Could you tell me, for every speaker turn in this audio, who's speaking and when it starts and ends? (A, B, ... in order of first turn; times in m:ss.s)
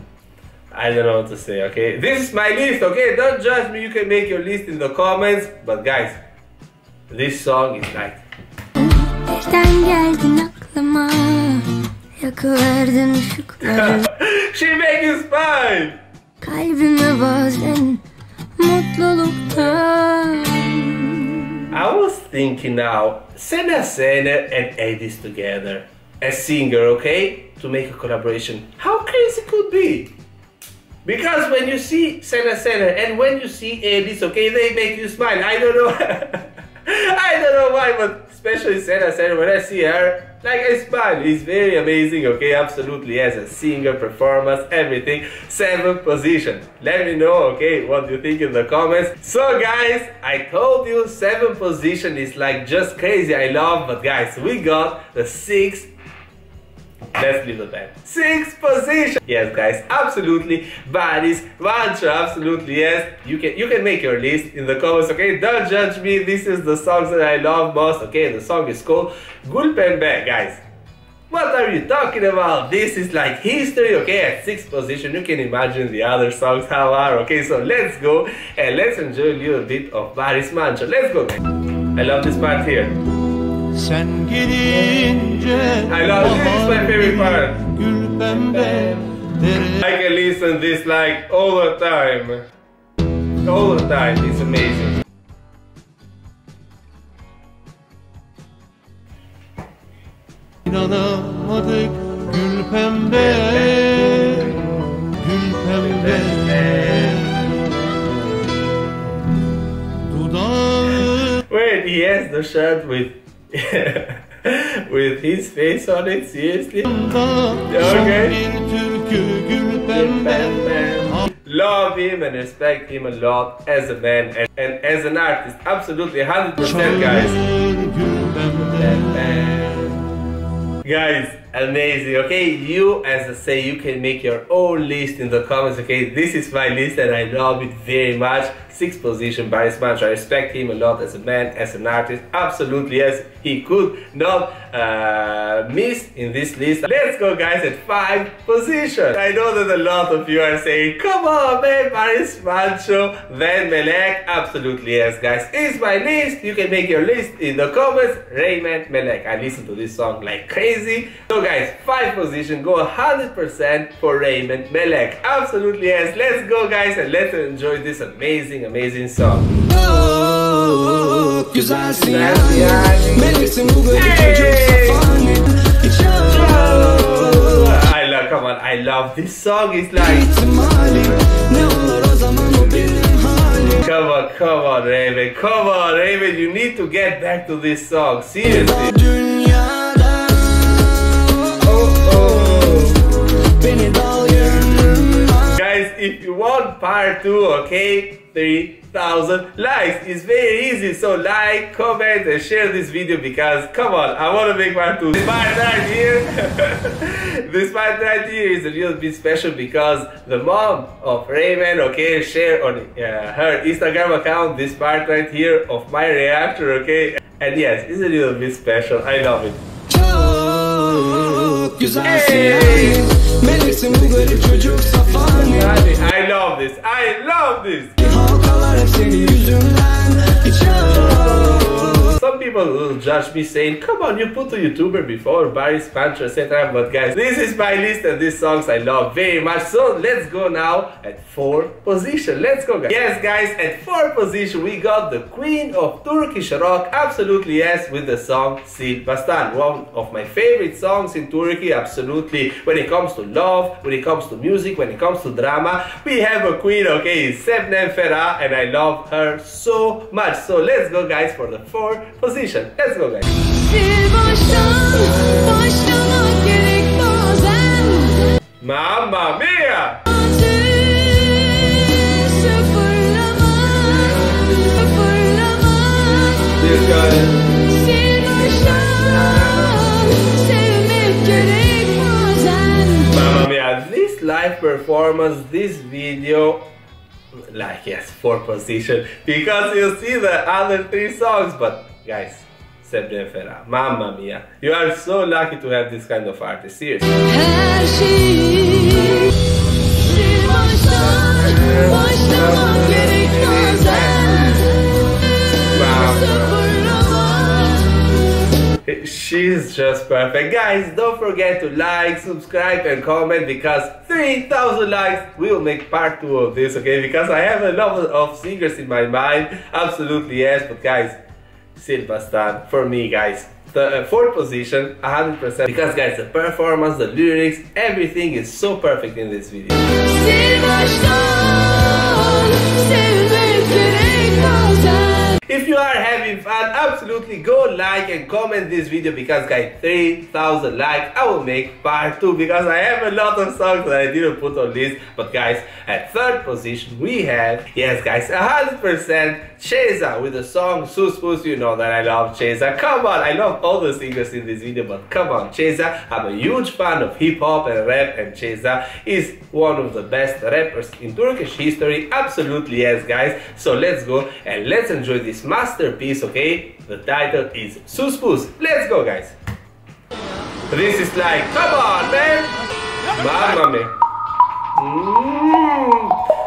0:00.7-0:06.2 A
0:07.1-0:08.2 A
0:08.8-0:14.0 B
0:13.6-0:16.0 A
0:16.4-0:18.0 B
0:18.6-0:21.5 B
0:19.5-0:19.8 A
0:21.7-0:30.1 A
0:31.0-0:55.9 A
0:57.2-1:10.6 A
1:11.3-1:21.4 A
1:21.9-1:23.0 A
1:23.9-1:25.4 C
1:25.0-1:32.4 A
1:27.8-1:28.8 C
1:33.4-1:35.0 A
1:40.7-1:43.0 C
1:42.8-1:44.6 A
1:45.6-1:47.4 A
1:50.3-1:50.8 C
1:51.4-1:57.0 A
1:57.6-1:58.4 A
1:58.5-1:59.8 C
1:59.7-2:07.4 A
2:07.7-2:08.1 C
2:08.4-2:10.0 A
2:10.8-2:49.5 A
2:49.6-2:57.7 D
2:51.9-2:55.0 A
2:56.2-3:00.3 A
3:00.0-3:03.8 D
3:03.8-3:09.0 A
3:08.5-3:12.7 D
3:11.6-3:13.0 A
3:13.5-3:15.5 D
3:15.5-3:39.6 A
3:39.9-3:45.8 D
3:42.0-3:43.0 A
3:45.2-3:48.0 A
3:48.0-3:52.2 D
3:52.0-4:23.3 A
4:23.5-4:28.2 B
4:28.6-4:30.0 A
4:30.1-4:36.5 B
4:36.5-4:37.6 A
4:37.6-4:43.1 B
4:38.8-4:39.2 A
4:43.1-4:46.7 A
4:47.5-4:57.1 A
4:57.2-4:59.3 B
5:00.0-5:04.8 B
5:00.8-5:04.6 A
5:05.7-5:06.8 A
5:05.9-5:08.1 B
5:08.8-5:21.2 A
5:21.7-5:30.0 A
5:30.0-5:35.4 B
5:35.5-6:09.4 A
6:10.7-6:12.5 A
6:13.1-6:13.9 A
6:14.8-6:16.1 A